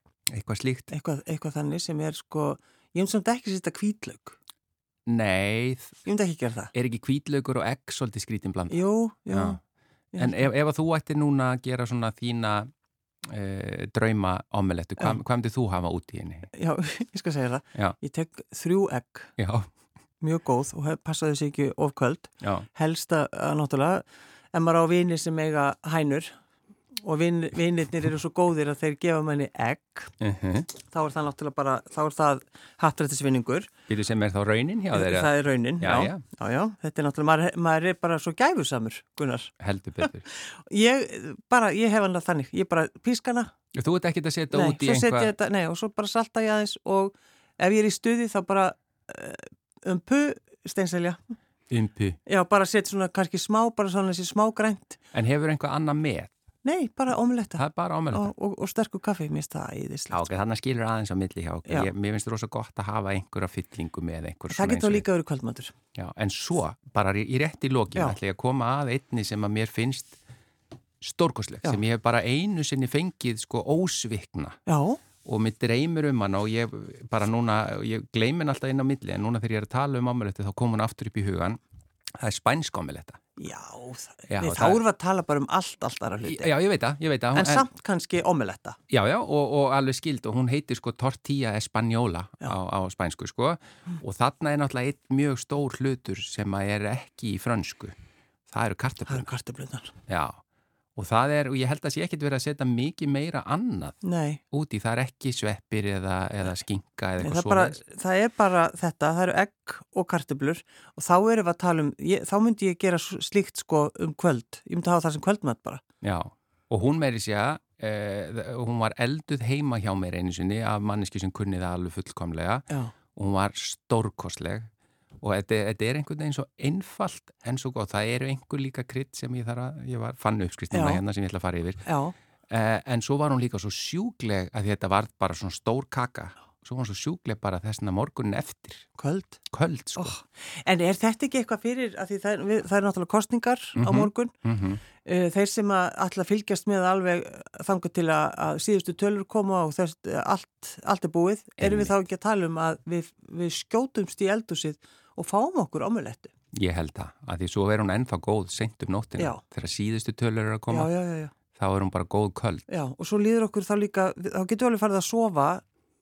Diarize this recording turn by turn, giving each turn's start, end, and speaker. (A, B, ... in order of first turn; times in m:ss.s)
0:00.3-0:00.9 A
0:00.9-0:04.4 B
0:05.1-0:06.0 A
0:06.0-0:06.7 B
0:06.7-0:08.8 A
0:08.7-0:09.6 B
0:09.3-0:09.6 A
0:10.2-0:10.5 B
0:10.2-0:12.7 A
0:13.3-0:16.5 A
0:16.5-0:19.3 B
0:19.4-0:19.7 A
0:20.2-0:26.3 B
0:22.4-0:22.7 A
0:27.0-0:30.1 B
0:30.2-0:30.7 A
0:30.9-0:33.7 B
0:33.9-0:36.2 A
0:34.9-0:39.5 B
0:39.6-0:40.2 A
0:40.2-0:43.5 B
0:43.8-0:45.3 A
0:44.5-0:51.2 B
0:51.7-0:52.2 A
0:52.3-0:55.0 B
0:55.1-0:56.3 A
0:56.6-1:00.3 B
0:57.6-0:58.3 A
1:00.1-1:05.0 A
1:04.5-1:05.7 B
1:06.0-1:10.2 A
1:11.0-1:14.6 A
1:14.7-1:15.0 B
1:15.2-1:21.6 A
1:22.2-1:23.2 A
1:23.4-1:26.5 B
1:24.3-1:24.8 A
1:26.2-1:27.7 A
1:27.3-1:28.8 B
1:28.9-1:38.0 A
1:38.5-1:39.3 A
1:39.1-1:39.9 B
1:40.1-1:40.4 A
1:41.0-1:44.0 A
1:44.0-1:44.4 B
1:44.5-1:47.8 A
1:47.2-1:55.8 B
1:56.0-2:04.7 A
2:05.2-2:11.8 A
2:10.7-2:11.0 B
2:11.8-2:12.2 B
2:12.5-2:18.9 A
2:19.0-2:19.4 B
2:19.5-2:20.2 A
2:20.0-2:24.3 B
2:23.8-2:24.8 A
2:25.0-2:36.3 B
2:31.6-2:31.9 A
2:36.5-2:40.9 A
2:40.7-2:41.3 B
2:41.6-2:42.6 A
2:42.7-2:45.6 B